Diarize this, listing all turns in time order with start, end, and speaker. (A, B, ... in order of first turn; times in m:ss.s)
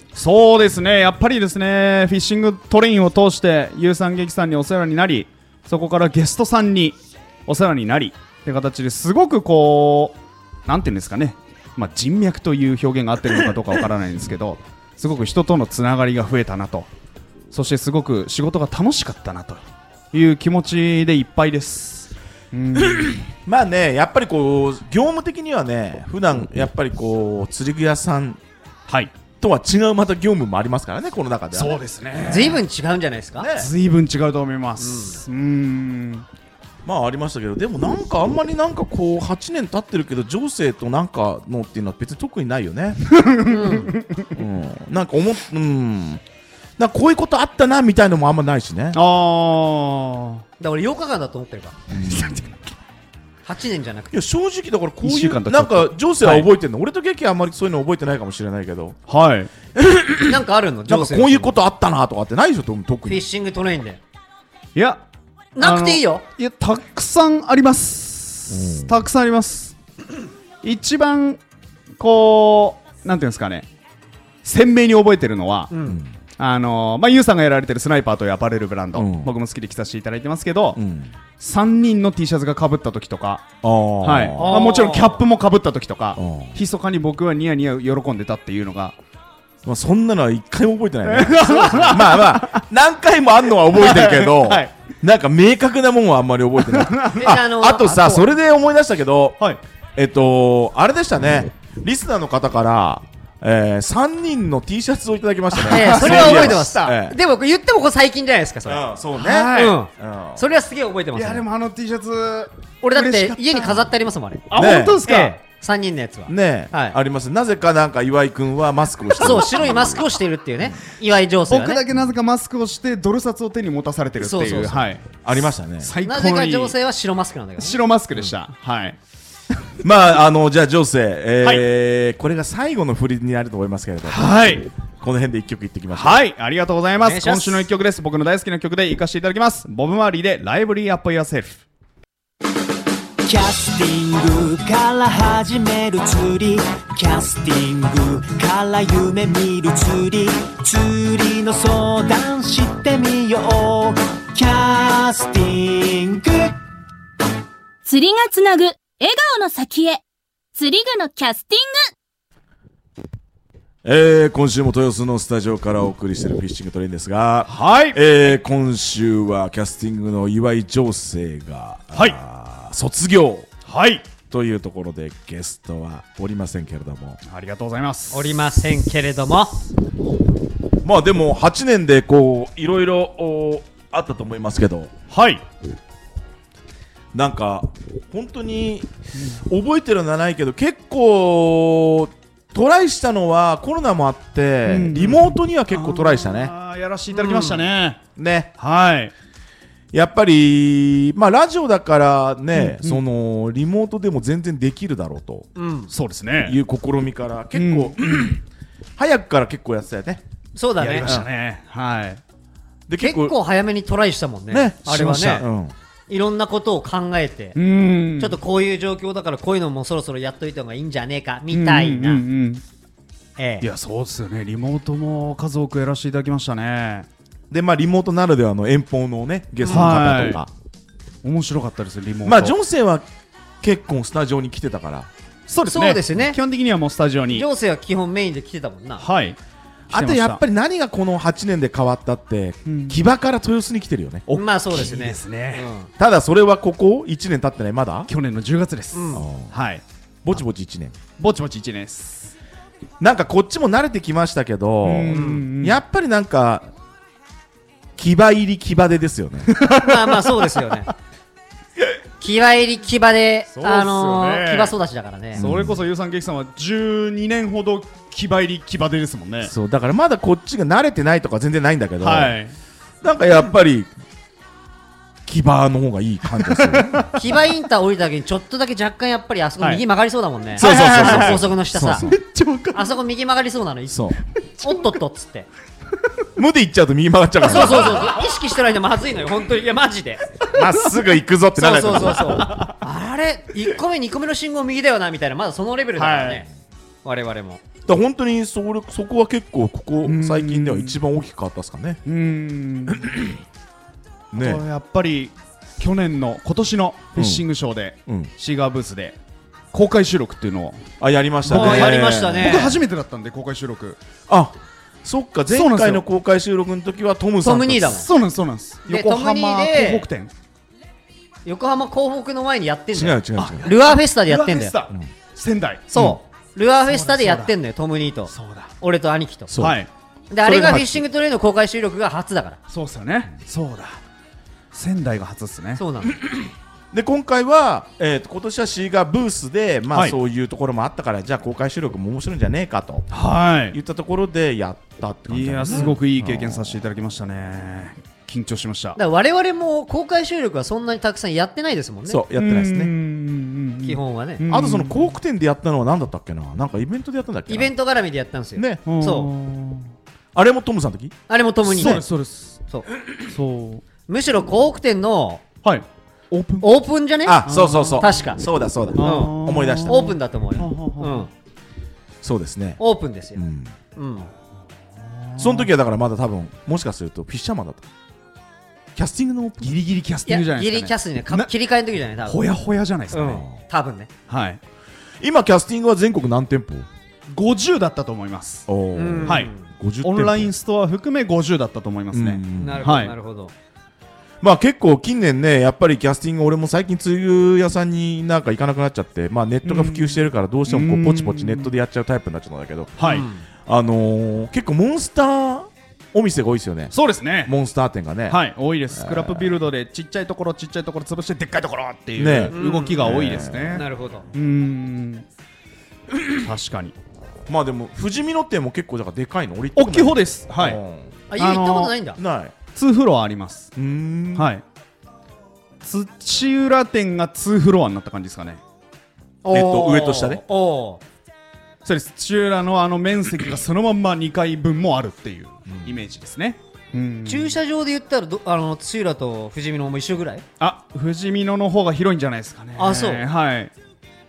0:00.1-0:16.9 A
0:17.5-0:23.2 A
0:22.8-0:28.4 B
0:28.9-0:29.1 A
0:29.4-0:31.8 B
0:31.5-0:32.6 A
0:32.2-0:33.5 C
0:33.4-0:33.7 B
0:33.6-0:36.2 A
0:34.8-0:35.2 C
0:36.8-0:43.1 B
0:43.1-0:44.2 A
0:43.4-0:43.9 C
0:44.3-0:46.2 B
0:46.8-0:49.0 B
0:48.9-0:50.4 A
0:50.6-0:51.7 C
0:51.9-0:52.4 B
0:52.0-0:52.7 A
0:53.4-0:54.1 C
0:54.1-0:59.0 B
0:55.0-0:56.5 A
0:59.1-0:59.5 A
0:59.8-1:03.2 B
1:00.2-1:01.5 C
1:03.1-1:04.0 C
1:04.7-1:05.0 A
1:05.6-1:06.2 C
1:05.6-1:09.7 A
1:08.5-1:09.0 B
1:10.6-1:11.4 A
1:12.0-1:13.7 A
1:14.4-1:15.7 A
1:15.7-1:16.0 C
1:15.9-1:16.1 B
1:16.4-1:20.8 A
1:18.9-1:19.3 B
1:20.7-1:21.1 B
1:21.4-1:28.9 A
1:23.6-1:24.7 B
1:24.4-1:25.2 C
1:26.2-1:26.5 B
1:29.6-1:39.4 B
1:31.0-1:32.6 A
1:33.7-1:34.7 A
1:36.6-1:37.4 A
1:37.1-1:38.3 C
1:40.0-1:47.2 B
1:45.5-1:46.9 A
1:45.6-1:48.8 C
1:48.6-1:50.4 B
1:49.2-1:49.8 A
1:49.5-1:51.4 C
1:51.1-1:53.8 A
1:52.8-1:54.5 C
1:54.5-1:55.3 A
1:54.5-1:55.0 B
1:55.0-1:57.0 C
1:56.3-2:00.0 B
1:59.2-2:01.8 C
2:01.5-2:05.2 A
2:04.2-2:04.9 C
2:05.2-2:05.9 B
2:05.8-2:06.7 A
2:06.0-2:07.8 C
2:07.6-2:09.0 A
2:09.8-2:14.3 B
2:14.1-2:14.7 A
2:15.0-2:16.2 B
2:15.9-2:21.6 A
2:17.0-2:17.6 C
2:23.2-2:36.5 D
2:37.8-2:40.0 E
2:40.5-2:41.8 E
2:43.8-2:53.5 B
2:47.5-2:48.0 A
2:53.6-2:54.0 A
2:54.3-2:57.2 B
2:57.3-2:58.3 A
2:58.1-2:59.6 C
3:00.8-3:04.9 B
3:05.1-3:05.4 A
3:07.1-3:16.5 B
3:14.6-3:18.0 A
3:17.1-3:17.7 C
3:18.2-3:18.5 B
3:18.6-3:19.1 A
3:19.9-3:25.5 B
3:22.5-3:23.0 A
3:25.6-3:25.9 C
3:25.9-3:26.6 A
3:26.4-3:28.4 B
3:27.5-3:28.4 A
3:29.0-3:30.2 B
3:30.6-3:31.1 C
3:30.8-3:32.2 A
3:31.0-3:31.3 B
3:32.9-3:33.4 B
3:33.0-3:35.4 C
3:34.5-3:35.7 B
3:36.1-3:37.6 C
3:37.5-3:38.4 A
3:38.2-3:42.2 C
3:41.5-3:42.6 A
3:43.4-3:43.7 C
3:43.6-3:47.1 A
3:47.5-3:50.5 B
3:49.7-3:50.4 A
3:51.2-3:52.6 A
3:52.2-3:53.0 B
3:53.6-3:55.1 B
3:55.5-3:57.4 A
3:55.7-3:56.4 C
3:57.3-3:59.0 C
3:59.0-3:59.4 A
3:59.9-4:00.4 A
3:59.9-4:04.2 B
4:02.6-4:03.0 A
4:04.3-4:05.7 A
4:04.3-4:05.9 C
4:06.0-4:08.1 B
4:08.1-4:09.8 A
4:08.9-4:09.2 C
4:09.1-4:09.5 B
4:10.2-4:11.0 B
4:11.2-4:12.3 A
4:13.0-4:16.7 B
4:14.8-4:15.8 A
4:15.1-4:15.4 C
4:18.0-4:19.5 B
4:19.5-4:20.8 A
4:19.7-4:20.9 C
4:22.2-4:25.4 C
4:23.5-4:24.7 A
4:25.3-4:29.5 A
4:25.4-4:25.8 B
4:29.4-4:32.3 B
4:32.0-4:32.5 A
4:33.0-4:33.9 B
4:35.2-4:37.0 B
4:36.3-4:37.1 A
4:37.1-4:42.1 C
4:40.6-4:42.9 A
4:40.6-4:42.2 B
4:42.7-4:45.5 C
4:43.9-4:44.2 B
4:44.6-4:44.9 A
4:46.4-4:48.1 B
4:47.4-4:50.2 C
4:47.5-4:48.2 A
4:50.5-4:52.4 B
4:51.6-4:56.4 C
4:52.0-4:52.7 A
4:56.0-4:56.4 A
4:57.0-4:57.6 C
4:57.8-5:02.0 B
5:00.0-5:01.0 A
5:02.0-5:03.1 A
5:02.9-5:03.2 B
5:04.3-5:04.6 B
5:04.3-5:09.2 A
5:07.2-5:07.4 B
5:09.7-5:10.8 A
5:11.0-5:12.7 B
5:11.4-5:14.0 A
5:11.5-5:12.8 C
5:14.3-5:18.0 B
5:15.5-5:16.0 A
5:17.4-5:18.1 C
5:17.9-5:20.3 A
5:18.9-5:20.0 C
5:21.4-5:24.7 C
5:22.9-5:23.7 B
5:23.4-5:26.0 A
5:25.9-5:29.5 C
5:26.8-5:27.5 A
5:28.3-5:28.7 A
5:29.5-5:29.8 B
5:29.6-5:29.9 A
5:30.3-5:32.6 C
5:30.4-5:31.0 B
5:32.7-5:34.0 A
5:34.7-5:35.8 A
5:35.8-5:36.2 C
5:36.9-5:43.1 B
5:39.9-5:40.2 A
5:43.1-5:43.8 A
5:43.7-5:46.8 B
5:45.3-5:49.0 A
5:49.0-5:52.2 C
5:52.1-5:52.9 B
5:52.4-5:55.1 A
5:53.8-5:54.4 C
5:54.5-5:57.7 B
5:57.5-5:59.3 C
5:58.6-5:58.8 B
5:58.8-5:59.9 A
6:00.3-6:01.1 B
6:01.3-6:02.0 C
6:01.6-6:02.6 A
6:03.3-6:03.8 A
6:04.1-6:05.4 C
6:05.6-6:06.8 A
6:06.6-6:11.3 C
6:07.2-6:10.1 B
6:07.4-6:08.2 A
6:09.0-6:11.3 A
6:12.2-6:12.8 B
6:12.8-6:13.4 C
6:13.4-6:13.7 B
6:14.0-6:14.3 C
6:15.1-6:15.7 A
6:15.4-6:17.8 B
6:19.0-6:19.7 B
6:19.6-6:21.5 A
6:20.3-6:22.4 C
6:22.2-6:23.4 A
6:23.1-6:24.1 C
6:23.2-6:23.5 B
6:24.3-6:24.6 A
6:25.2-6:26.9 B
6:27.3-6:28.7 A
6:28.7-6:30.5 B
6:28.9-6:29.6 C
6:29.2-6:29.5 A
6:30.0-6:33.1 A
6:32.1-6:32.9 B
6:32.6-6:33.5 C
6:34.4-6:43.0 B
6:39.6-6:41.7 A
6:43.0-6:43.2 A
6:43.0-6:43.4 C
6:43.6-6:46.9 B
6:46.9-6:47.5 A
6:47.4-6:48.4 B
6:48.3-6:55.2 A
6:48.9-6:49.6 B
6:52.2-6:53.8 B
6:52.5-6:54.3 C
6:56.3-6:56.9 A
6:57.5-7:01.1 B
6:59.7-7:00.8 A
7:01.3-7:02.2 C
7:01.4-7:01.9 A
7:02.2-7:02.5 B
7:02.7-7:03.7 A
7:03.8-7:04.5 B
7:04.3-7:04.6 A
7:05.8-7:08.6 A
7:09.4-7:11.0 C
7:09.5-7:10.4 B
7:11.8-7:17.6 A
7:15.7-7:16.0 B
7:17.2-7:20.4 C
7:20.6-7:23.7 A
7:22.8-7:23.2 C